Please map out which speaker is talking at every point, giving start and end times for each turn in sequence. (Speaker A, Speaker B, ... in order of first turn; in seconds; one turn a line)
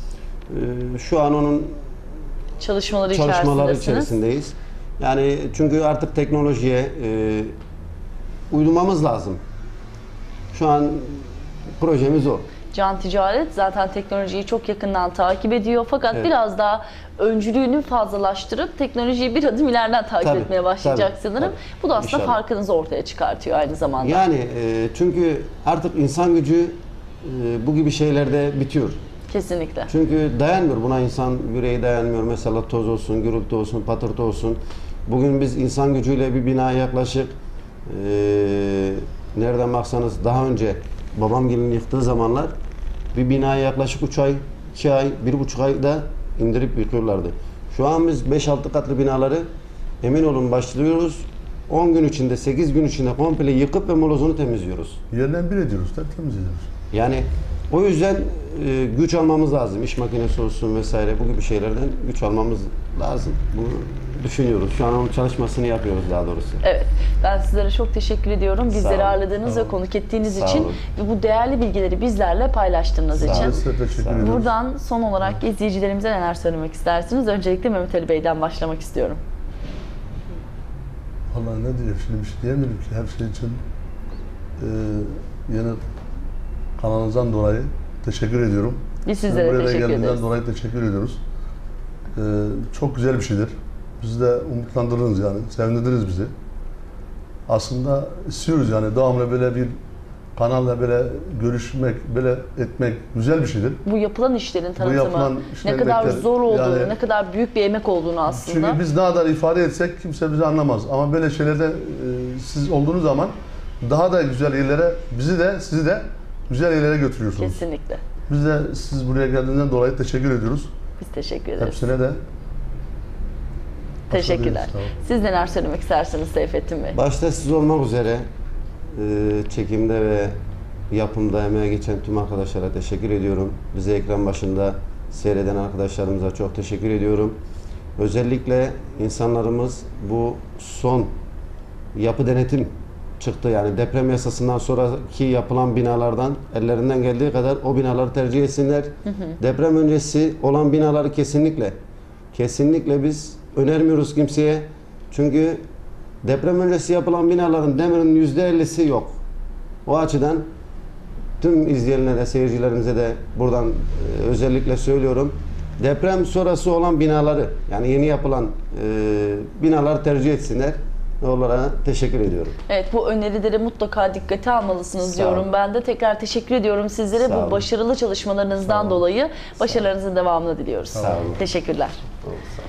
Speaker A: 0.5-1.8
Speaker B: 2.6-4.1
Speaker A: 3.1-7.5
Speaker A: 8.5-9.4
Speaker A: 10.5-11.2
Speaker A: 11.8-12.5
Speaker B: 12.7-24.2
Speaker A: 20.2-22.4
Speaker A: 24.0-29.0
Speaker B: 29.3-29.9
Speaker A: 29.9-37.3
Speaker A: 37.9-42.5
Speaker A: 43.1-49.5
Speaker A: 50.0-55.0
Speaker C: 55.1-56.7
Speaker A: 56.9-66.6
Speaker B: 66.6-73.6
Speaker A: 68.7-69.2
Speaker C: 69.5-69.8
Speaker A: 70.2-70.8
Speaker C: 73.2-74.5
Speaker A: 73.2-74.3
Speaker B: 74.2-79.2
Speaker C: 81.3-83.6
Speaker C: 84.6-85.8
Speaker C: 86.8-91.2
Speaker B: 89.1-90.2
Speaker C: 92.2-96.3
Speaker C: 97.5-99.8
Speaker C: 100.3-103.8
Speaker B: 103.8-108.8
Speaker C: 104.8-107.0
Speaker C: 108.3-117.6
Speaker B: 117.4-118.0
Speaker C: 118.3-120.7
Speaker B: 121.0-121.8
Speaker C: 121.6-122.2
Speaker C: 124.1-124.9
Speaker B: 124.1-127.0
Speaker A: 126.9-128.3
Speaker A: 128.9-130.3
Speaker A: 130.9-137.4
Speaker A: 138.0-141.1
Speaker A: 141.9-151.8
Speaker A: 152.3-155.6
Speaker A: 156.2-159.2
Speaker A: 159.9-160.5
Speaker A: 161.4-172.6
Speaker B: 172.7-182.0
Speaker A: 175.0-175.5
Speaker A: 177.2-177.7
Speaker A: 178.7-179.0
Speaker A: 180.9-181.4